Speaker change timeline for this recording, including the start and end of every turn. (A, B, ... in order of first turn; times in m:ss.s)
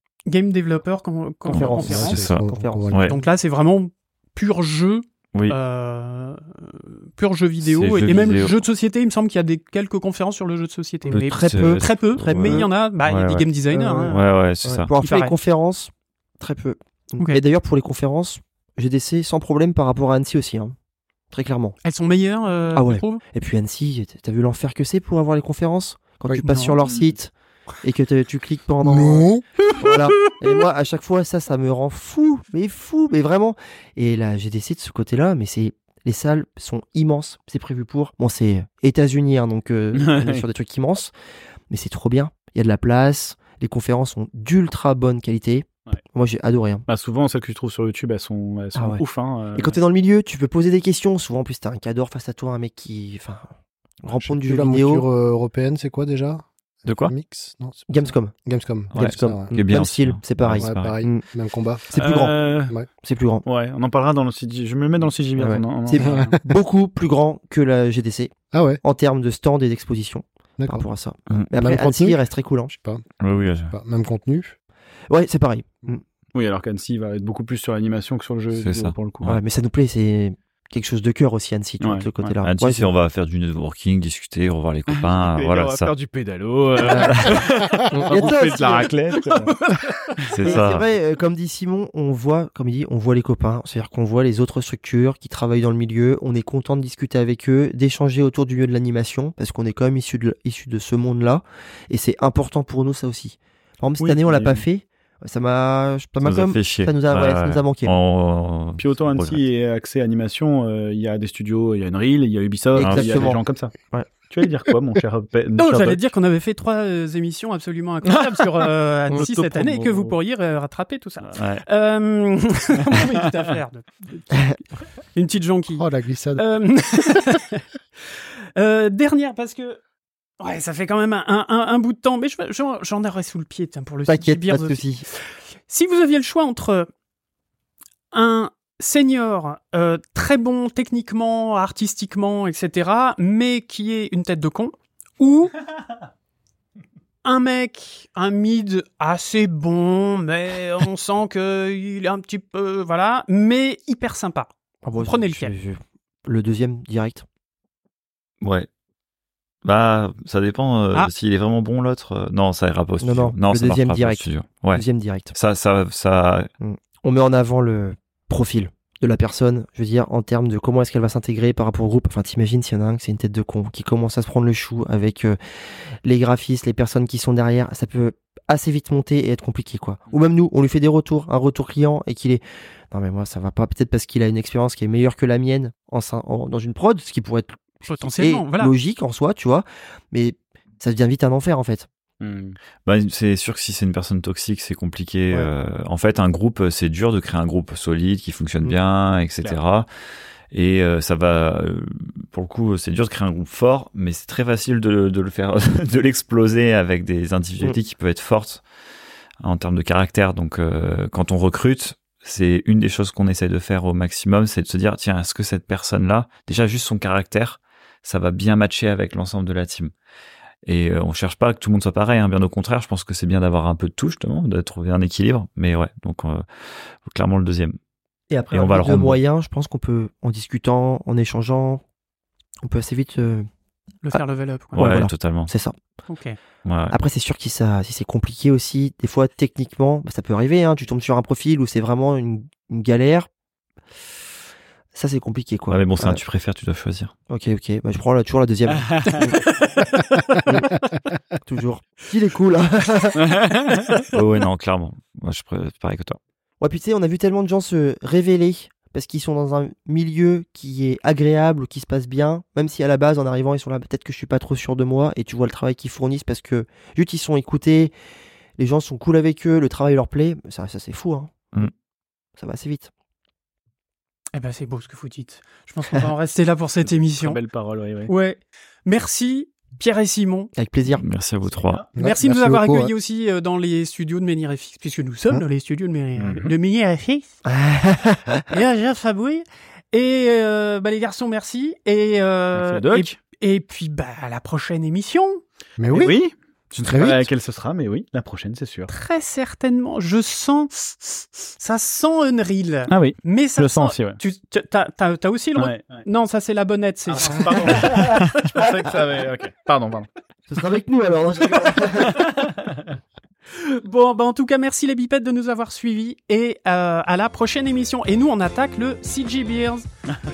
0:00.3-0:02.3 A
0:01.5-0:03.1 B
0:01.6-0:03.2 C
0:02.4-0:02.9 D
0:02.9-0:14.3 A
0:07.6-0:08.6 B
0:11.1-0:13.5 B
0:11.3-0:12.7 D
0:13.7-0:20.7 D
0:14.1-0:14.9 B
0:15.0-0:15.3 A
0:21.3-0:21.8 D
0:21.8-0:23.2 A
0:22.7-0:41.1 D
0:26.3-0:26.8 A
0:28.8-0:29.4 C
0:39.9-0:40.4 E
0:41.7-0:46.8 D
0:46.9-0:49.8 E
0:48.7-0:49.0 D
0:49.5-0:53.5 D
0:54.0-0:55.1 D
0:54.2-0:59.6 C
0:56.8-0:57.1 B
0:57.9-0:58.4 D
0:58.9-1:01.2 D
0:58.9-1:01.0 B
1:00.6-1:01.9 C
1:01.9-1:02.4 D
1:01.9-1:02.7 E
1:02.9-1:03.4 D
1:03.4-1:06.0 E
1:05.4-1:12.7 D
1:06.0-1:06.3 A
1:06.0-1:06.4 C
1:08.5-1:08.8 C
1:10.6-1:10.8 C
1:11.6-1:13.0 C
1:13.2-1:13.7 B
1:13.7-1:14.6 C
1:15.1-1:16.0 D
1:16.3-1:19.2 E
1:18.5-1:19.4 B
1:19.2-1:22.9 D
1:21.8-1:22.3 E
1:22.4-1:25.9 B
1:24.9-1:29.5 E
1:26.8-1:27.2 D
1:26.9-1:27.5 B
1:27.9-1:28.9 D
1:28.1-1:29.3 B
1:30.3-1:30.8 B
1:30.4-1:47.9 D
1:44.0-1:44.6 E
1:46.2-1:49.4 B
1:48.8-1:53.7 E
1:52.7-1:54.1 D
1:52.8-1:53.4 B
1:54.2-1:56.0 E
1:55.6-2:04.6 A
1:59.1-2:00.1 E
2:01.3-2:01.6 B
2:05.1-2:07.6 A
2:05.7-2:06.4 C
2:08.6-2:09.8 A
2:10.4-2:16.9 A
2:14.1-2:15.0 D
2:18.1-2:25.6 A
2:27.2-2:35.5 A
2:34.8-2:37.2 D
2:38.4-2:38.7 B
2:39.6-2:46.5 B
2:43.0-2:45.4 D
2:46.6-3:11.9 D
3:07.9-3:08.7 A
3:12.2-3:12.6 E
3:12.8-3:19.9 B
3:20.5-3:28.6 B
3:29.4-3:39.9 B
3:40.6-3:47.8 B
3:48.3-3:51.8 D
3:48.5-3:49.2 B
3:52.6-3:53.4 D
3:54.0-3:54.8 A
3:54.7-3:55.5 B
3:54.8-3:55.7 D
3:56.1-3:56.4 A
3:56.6-3:56.9 B
3:56.9-4:03.3 D
4:04.9-4:06.2 D
4:05.7-4:07.1 B
4:07.3-4:09.4 D
4:10.4-4:10.7 D
4:11.4-4:13.2 D
4:13.2-4:14.0 E
4:14.1-4:16.2 B
4:16.6-4:27.9 D
4:28.6-4:31.3 D
4:32.4-4:32.9 D
4:34.4-4:37.4 A
4:37.2-4:38.1 E
4:38.1-4:40.5 A
4:40.6-4:41.0 D
4:40.9-4:41.8 B
4:41.4-4:41.9 E
4:41.9-4:42.9 C
4:42.0-4:47.2 A
4:46.2-4:46.5 E
4:47.4-4:48.4 D
4:48.5-4:55.4 A
4:52.5-4:53.1 E
4:55.8-4:56.2 C
4:55.9-4:58.9 E
4:56.8-4:57.3 C
4:58.9-5:07.9 A
5:02.9-5:04.2 E
5:05.6-5:06.0 E
5:07.1-5:10.1 E
5:07.5-5:08.2 D
5:10.5-5:12.3 D
5:12.1-5:12.9 E
5:13.5-5:19.8 A